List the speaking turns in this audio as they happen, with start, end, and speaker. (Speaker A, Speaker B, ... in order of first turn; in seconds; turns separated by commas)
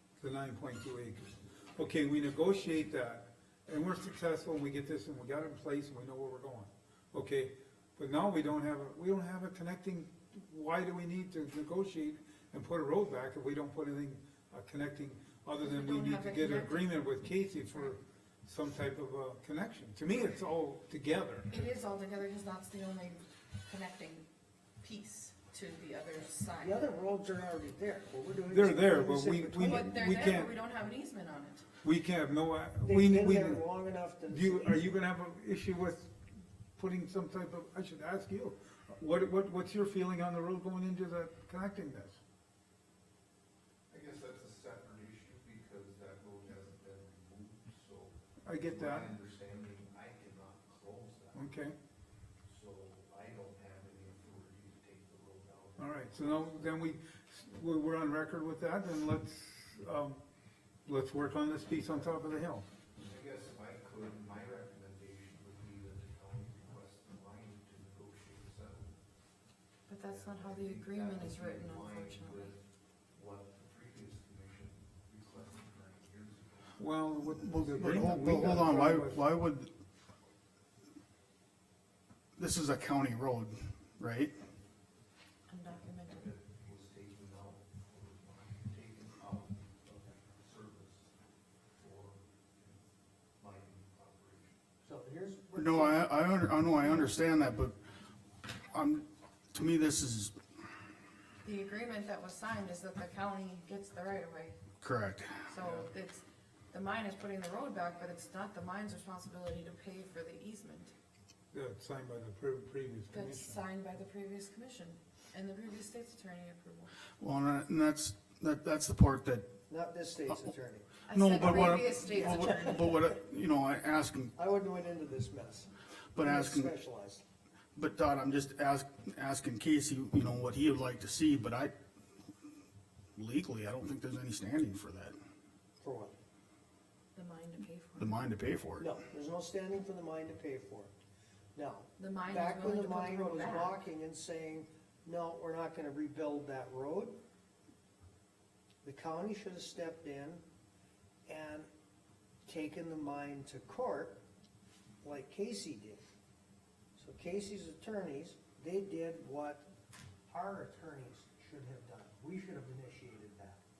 Speaker A: 0.2-21.6, Speaker B: 15.6-16.9, Speaker B: 21.5-24.3, Speaker B: 24.8-26.9, Speaker C: 26.6-29.9, Speaker A: 28.5-30.6, Speaker B: 29.6-31.6, Speaker A: 31.8-33.6, Speaker C: 32.8-34.9, Speaker A: 34.3-36.1, Speaker A: 36.8-42.2, Speaker D: 43.9-51.6, Speaker A: 48.4-49.1, Speaker A: 51.3-51.8, Speaker D: 52.5-56.9, Speaker A: 55.8-60.2, Speaker A: 60.8-62.6, Speaker D: 63.0-68.9, Speaker B: 69.9-72.5, Speaker D: 70.1-78.5, Speaker A: 76.8-79.2, Speaker E: 77.8-79.7, Speaker E: 82.4-84.3, Speaker B: 85.5-86.3, Speaker D: 86.1-91.1, Speaker D: 91.8-92.8, Speaker D: 93.4-94.6, Speaker C: 94.8-96.1, Speaker E: 95.5-97.8, Speaker E: 98.7-100.3, Speaker B: 101.4-104.6, Speaker E: 104.8-105.4, Speaker B: 105.5-110.9, Speaker A: 105.6-105.9, Speaker A: 111.5-113.6, Speaker B: 113.1-116.9, Speaker E: 117.2-119.5, Speaker C: 119.7-122.5, Speaker B: 121.0-123.1, Speaker E: 121.1-124.3, Speaker C: 124.3-127.2, Speaker E: 126.1-126.7, Speaker E: 127.8-131.7, Speaker E: 133.2-135.1, Speaker C: 135.8-136.1, Speaker B: 137.1-138.2, Speaker E: 138.0-138.8, Speaker C: 138.8-140.9, Speaker C: 141.5-147.2, Speaker B: 142.0-143.8, Speaker C: 148.8-150.4, Speaker C: 151.2-151.7, Speaker C: 152.4-154.2, Speaker C: 155.0-156.0, Speaker C: 156.9-159.7, Speaker C: 160.3-163.6